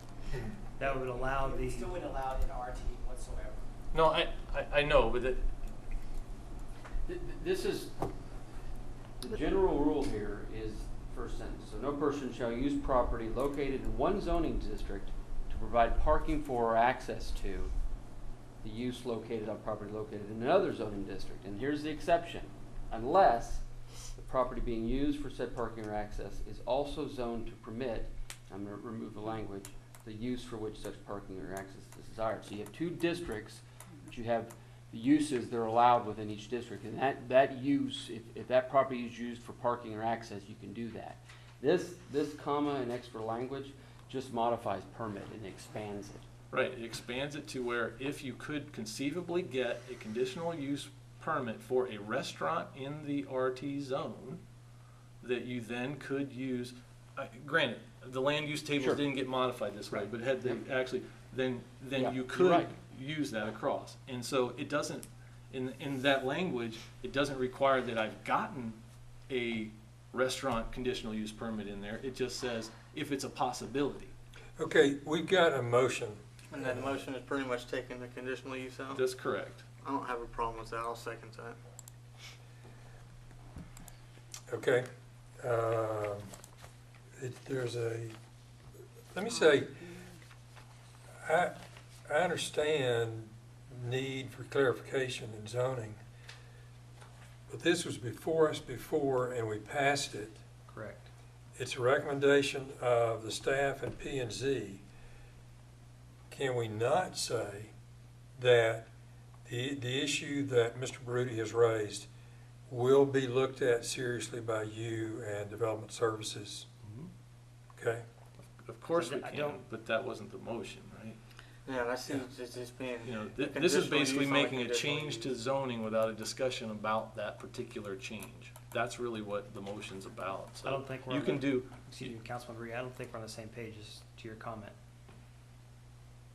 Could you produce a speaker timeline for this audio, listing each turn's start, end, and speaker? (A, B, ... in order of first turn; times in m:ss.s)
0:00.8-0:02.0 A
0:00.8-0:03.7 B
0:03.9-0:05.4 C
0:07.1-0:07.9 D
0:09.2-0:17.7 D
0:18.6-0:23.6 D
0:24.2-0:46.2 D
0:46.5-0:54.4 C
0:55.2-1:14.1 C
0:59.9-1:00.6 D
1:02.0-1:02.7 D
1:14.6-1:16.2 E
1:16.5-1:19.0 F
1:19.0-1:19.6 C
1:19.8-1:21.6 F
1:24.5-1:24.9 E
1:25.4-1:26.3 E
1:27.2-1:28.2 E
1:29.1-1:30.0 E
1:31.2-1:36.0 E
1:37.5-1:40.4 E
1:40.7-1:41.1 A
1:41.6-1:44.8 E
1:46.3-1:47.7 E
1:48.4-1:48.9 E
1:49.4-1:52.1 E
1:52.7-1:56.7 E
1:56.8-1:57.1 A
1:57.8-1:58.1 E
1:58.6-2:01.2 C
1:58.9-1:59.6 A
2:01.7-2:05.3 F
2:03.0-2:12.2 C
2:10.6-2:14.8 A